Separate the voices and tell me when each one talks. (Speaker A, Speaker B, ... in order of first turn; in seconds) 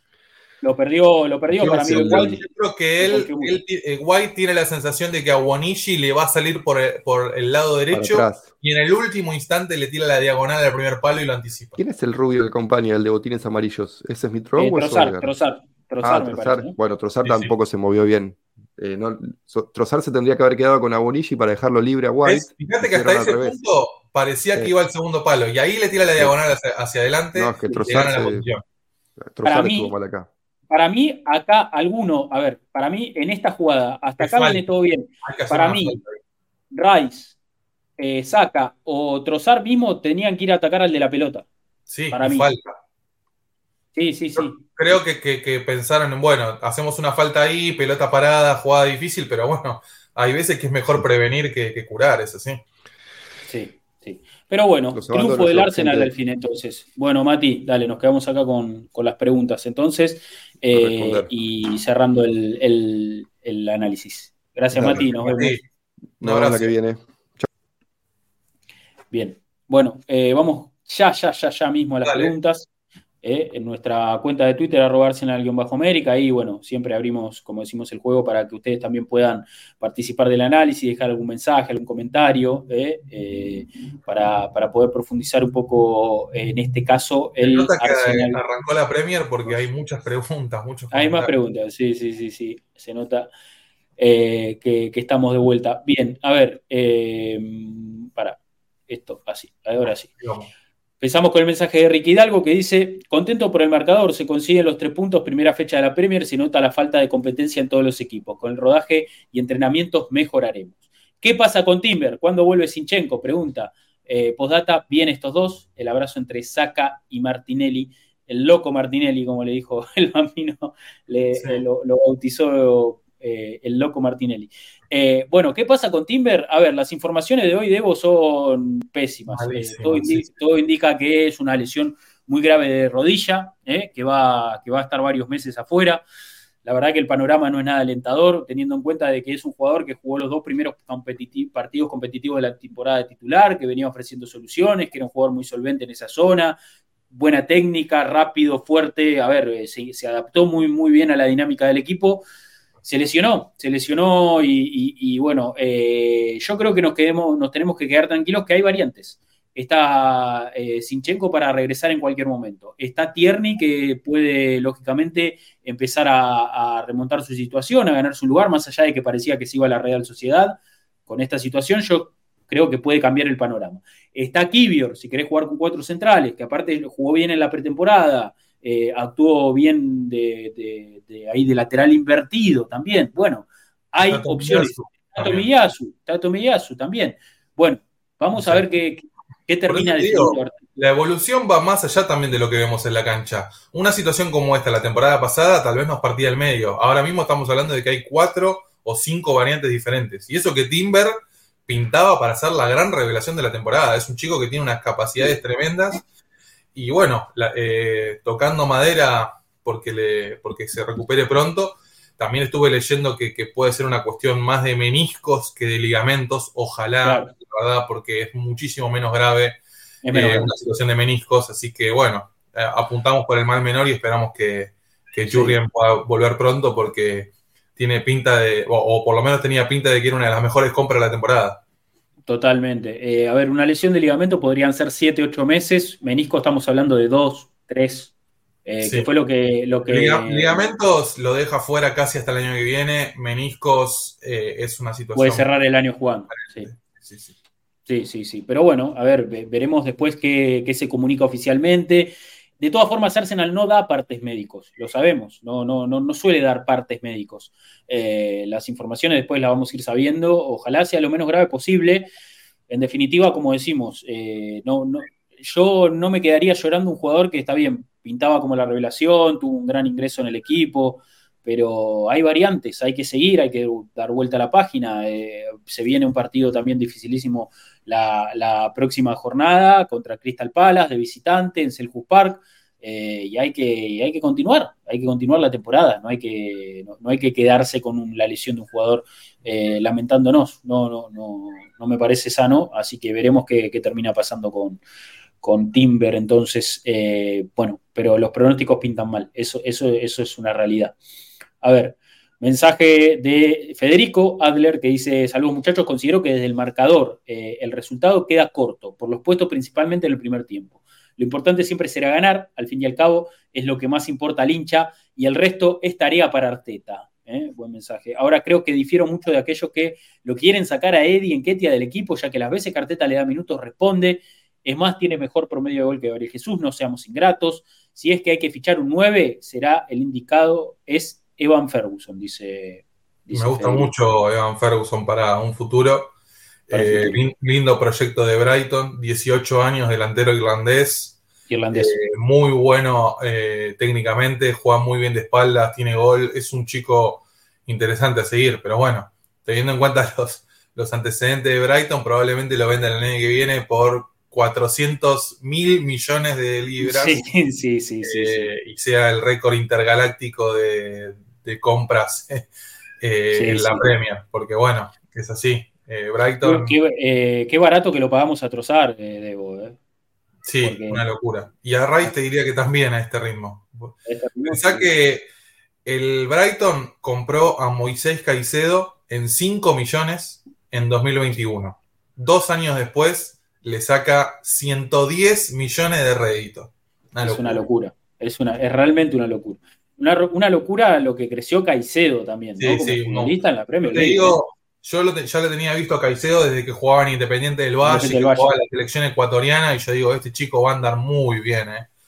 Speaker A: 0.6-2.4, 3.0-3.6, 14.6-16.8, 29.4-29.9, 30.7-36.0, 36.7-37.4, 38.0-41.5, 42.1-42.5, 43.9-44.7, 53.5-65.5, 69.1-72.7, 73.2-88.4, 90.9-93.3, 94.0-98.4, 98.9-100.1, 101.0-136.0, 136.6-146.6, 147.1-152.2, 152.8-190.6, 217.0-217.3, 220.0-220.6, 225.3-225.6, 232.3-238.1, 238.7-240.6, 245.1-246.7, 247.9-262.1, 262.7-294.8, 295.4-300.9, 301.6-333.9, 336.7-337.2, 341.5-342.0, 356.8-358.5, 363.3-363.9, 366.4-369.8, 370.6-371.0, 374.1-374.9, 387.2-394.4, 397.8-398.6
Speaker B: 1.5-2.4, 7.9-8.4, 11.8-15.3, 16.0-23.6, 27.3-28.4, 29.2-30.3, 54.9-56.1, 60.7-61.3, 64.7-65.0, 66.2-67.5
Speaker C: 1.9-11.8, 17.2-17.5, 22.2-28.6, 34.2-34.6, 35.2-36.2, 41.9-42.8, 44.4-52.6, 65.1-65.6, 66.2-66.7, 72.0-72.3, 87.4-91.3, 100.2-100.5, 121.3-121.6, 129.3-130.3, 184.0-185.5, 188.3-188.6, 189.7-201.2, 201.7-206.0, 206.7-219.6, 220.1-231.6, 238.8-239.1, 239.8-245.5, 246.3-247.3, 333.3-336.1, 336.7-341.2, 341.7-357.2, 358.0-362.5, 363.0-366.8, 370.4-375.3, 375.8-387.6, 392.6-401.9